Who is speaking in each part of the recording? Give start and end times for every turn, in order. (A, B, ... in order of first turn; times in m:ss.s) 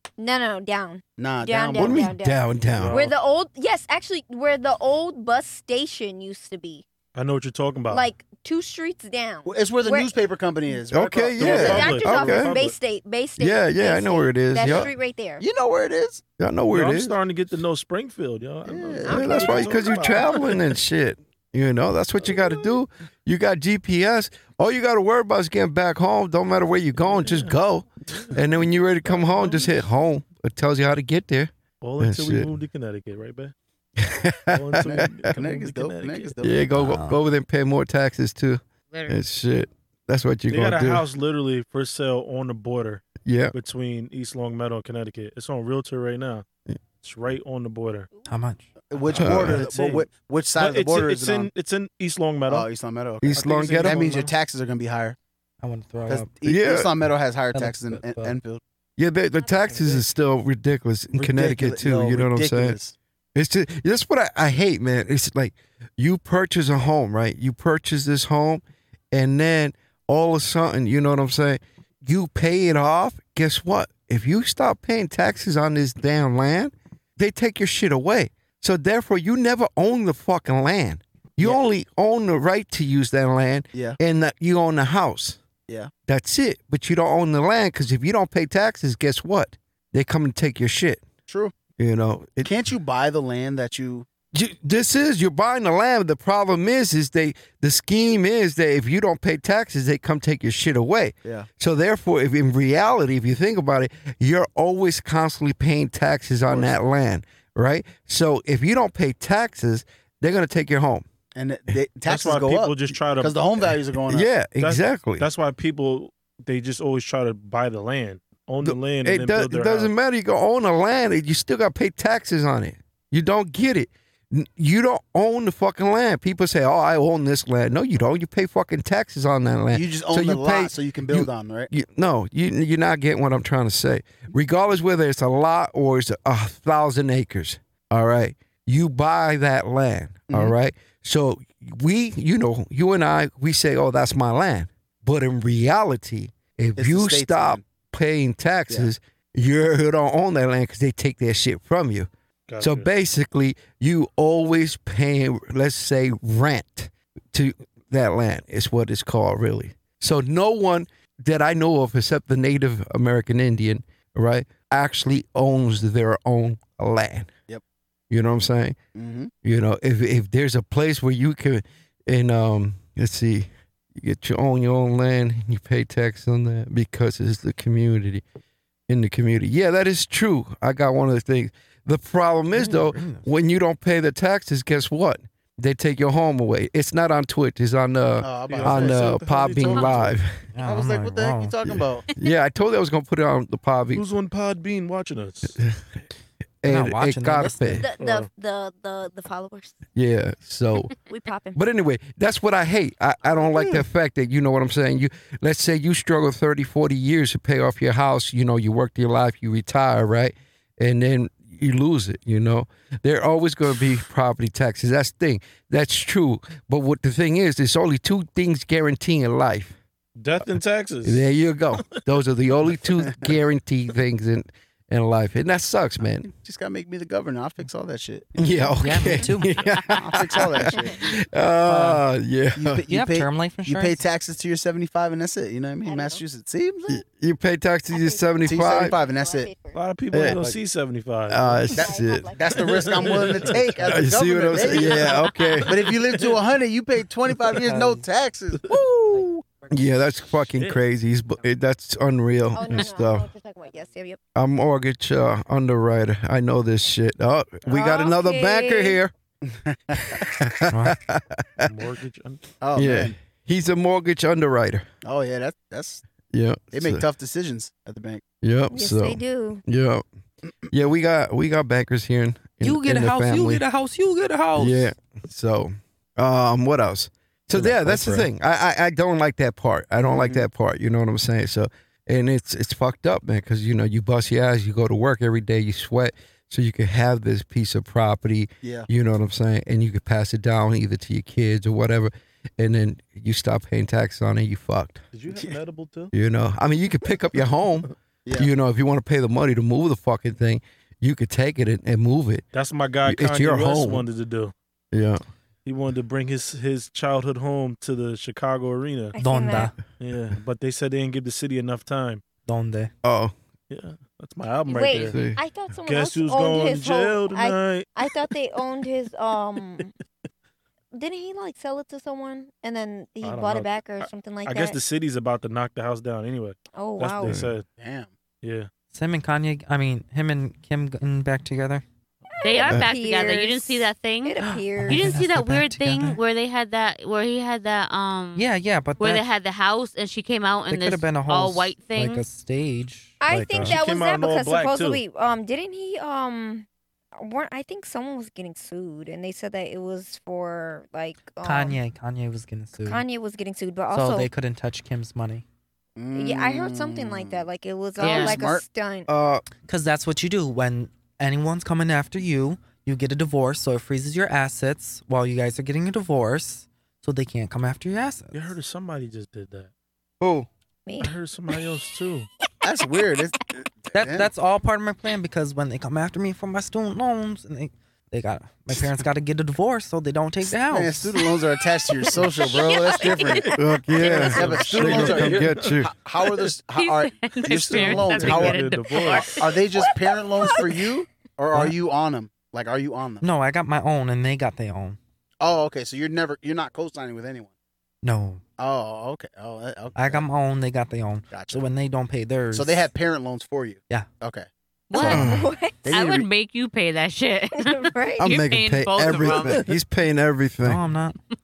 0:00.2-0:06.8 A
0:01.2-0:02.1 B
0:01.8-0:03.0 C
0:02.7-0:03.1 D
0:07.1-0:08.1 D
0:07.9-0:10.1 A
0:09.4-0:12.0 B
0:10.9-0:12.5 C
0:11.4-0:12.7 D
0:11.4-0:15.4 A
0:13.4-0:14.9 C
0:14.6-0:16.2 B
0:16.4-0:17.2 C
0:16.7-0:20.7 D
0:18.6-0:19.6 B
0:19.0-0:20.2 A
0:19.1-0:32.5 C
0:27.0-0:27.5 D
0:28.1-0:28.4 D
0:29.0-0:29.8 D
0:31.8-0:33.5 D
0:34.0-0:35.3 C
0:34.5-0:36.3 D
0:34.8-0:36.7 B
0:36.4-0:41.0 C
0:36.7-0:37.2 E
0:38.9-0:39.2 F
0:40.5-0:46.4 D
0:43.2-0:43.5 C
0:47.0-0:48.1 D
0:48.3-0:48.7 E
0:48.9-0:51.5 B
0:49.0-0:52.7 D
0:49.1-0:49.6 C
0:52.5-0:55.2 B
0:53.2-0:54.0 C
0:53.3-0:54.3 D
0:55.6-0:56.4 E
0:56.1-0:58.6 B
0:56.4-0:56.9 C
0:57.5-0:58.4 E
0:59.0-1:02.8 C
0:59.4-0:59.9 A
1:01.1-1:03.0 B
1:03.3-1:25.4 C
1:23.7-1:24.0 B
1:26.1-1:31.0 C
1:31.3-1:31.5 B
1:31.8-1:32.5 C
1:32.4-1:34.1 B
1:34.3-1:51.0 C
1:46.5-1:46.7 B
1:51.3-1:54.3 B
1:52.0-1:53.4 D
1:54.1-1:55.3 C
1:54.6-1:59.9 D
1:58.6-2:32.1 C
2:09.7-2:11.7 B
2:20.3-2:20.5 B
2:26.8-2:27.6 B
2:32.5-2:32.9 D
2:32.6-2:47.3 C
2:48.1-2:48.8 C
2:48.9-2:49.3 B
2:49.4-2:58.2 C
2:58.9-3:10.4 C
3:02.5-3:03.3 E
3:08.2-3:10.0 B
3:08.5-3:10.2 D
3:10.5-3:11.5 E
3:10.6-3:12.1 B
3:11.6-3:14.0 C
3:13.9-3:15.6 D
3:16.6-3:17.8 C
3:16.7-3:17.9 E
3:17.8-3:19.8 A
3:18.0-3:18.3 D
3:19.9-3:20.9 C
3:21.0-3:21.6 A
3:21.5-3:39.7 C
3:40.2-3:42.0 D
3:41.0-3:46.3 C
3:46.0-3:48.7 B
3:48.4-3:52.8 C
3:48.8-3:49.6 E
3:50.0-3:51.0 B
3:51.6-3:52.0 E
3:52.6-3:57.0 B
3:52.9-3:54.0 E
3:55.8-3:56.2 A
3:56.9-3:58.9 C
3:57.9-3:59.8 A
3:58.4-3:59.5 B
3:59.7-4:01.7 D
4:00.1-4:00.4 C
4:01.3-4:02.3 C
4:01.7-4:03.4 A
4:01.8-4:09.4 B
4:02.6-4:03.8 D
4:03.9-4:05.8 C
4:04.5-4:06.3 D
4:07.6-4:08.0 E
4:09.7-4:13.2 C
4:12.5-4:14.2 A
4:14.3-4:19.1 C
4:17.6-4:17.9 D
4:17.7-4:19.0 A
4:19.4-4:20.4 B
4:20.0-4:21.7 C
4:20.7-4:21.0 E
4:21.6-4:22.4 D
4:22.6-4:23.1 B
4:22.7-4:24.8 C
4:25.0-4:26.0 B
4:26.3-4:27.0 C
4:26.7-4:28.2 B
4:28.4-4:30.0 C
4:28.7-4:29.6 A
4:30.7-4:33.6 C
4:32.6-4:34.9 E
4:34.6-4:55.0 C
4:37.5-4:38.3 E
4:40.0-4:40.4 B
4:48.6-4:48.9 B
4:55.1-4:56.1 D
4:55.3-4:55.6 B
4:56.1-5:02.4 C
5:02.5-5:04.5 D
5:03.0-5:04.0 C
5:04.9-5:05.2 C
5:05.6-5:09.2 D
5:09.1-5:09.7 A
5:09.2-5:09.8 E
5:10.0-5:12.2 D
5:12.5-5:12.9 E
5:13.0-5:13.3 C
5:13.7-5:15.2 D
5:14.7-5:19.9 A
5:15.0-5:15.4 C
5:15.9-5:18.1 D
5:20.9-5:24.8 A
5:23.2-5:27.6 D
5:26.7-5:27.4 A
5:27.2-5:27.5 C
5:27.8-5:28.1 B
5:28.4-5:28.7 D
5:28.9-5:31.8 E
5:32.3-5:35.2 A
5:32.4-5:42.3 F
5:34.4-5:36.2 E
5:38.4-5:39.2 E
5:40.7-5:43.8 E
5:43.2-5:46.7 A
5:43.3-5:45.0 D
5:47.2-5:51.8 A
5:51.4-5:53.0 E
5:52.8-5:54.3 A
5:53.9-5:55.4 E
5:56.0-5:57.5 B
5:56.1-5:59.1 A
5:58.0-5:58.4 F
5:58.0-5:58.6 B
5:59.1-5:59.4 C
5:59.6-6:08.5 E
6:08.3-6:09.7 D
6:10.2-6:10.5 C
6:10.8-6:11.1 A
6:11.0-6:12.3 D
6:12.6-6:14.3 B
6:13.9-6:21.2 E
6:20.4-6:33.3 B
6:22.0-6:23.3 A
6:22.6-6:23.5 F
6:23.3-6:25.8 D
6:23.6-6:25.9 C
6:26.8-6:29.8 F
6:27.4-6:29.4 D
6:29.8-6:30.8 A
6:33.2-6:35.0 E
6:35.4-6:37.5 B
6:38.0-6:38.4 E
6:38.6-6:40.2 B
6:39.9-6:42.9 E
6:41.3-6:41.7 B
6:42.5-6:45.2 B
6:44.9-6:45.9 A
6:44.9-6:45.2 F
6:45.0-6:45.4 C
6:45.8-6:46.3 B
6:45.9-6:49.7 F
6:47.6-6:48.3 A
6:48.2-6:50.8 C
6:50.6-6:51.2 E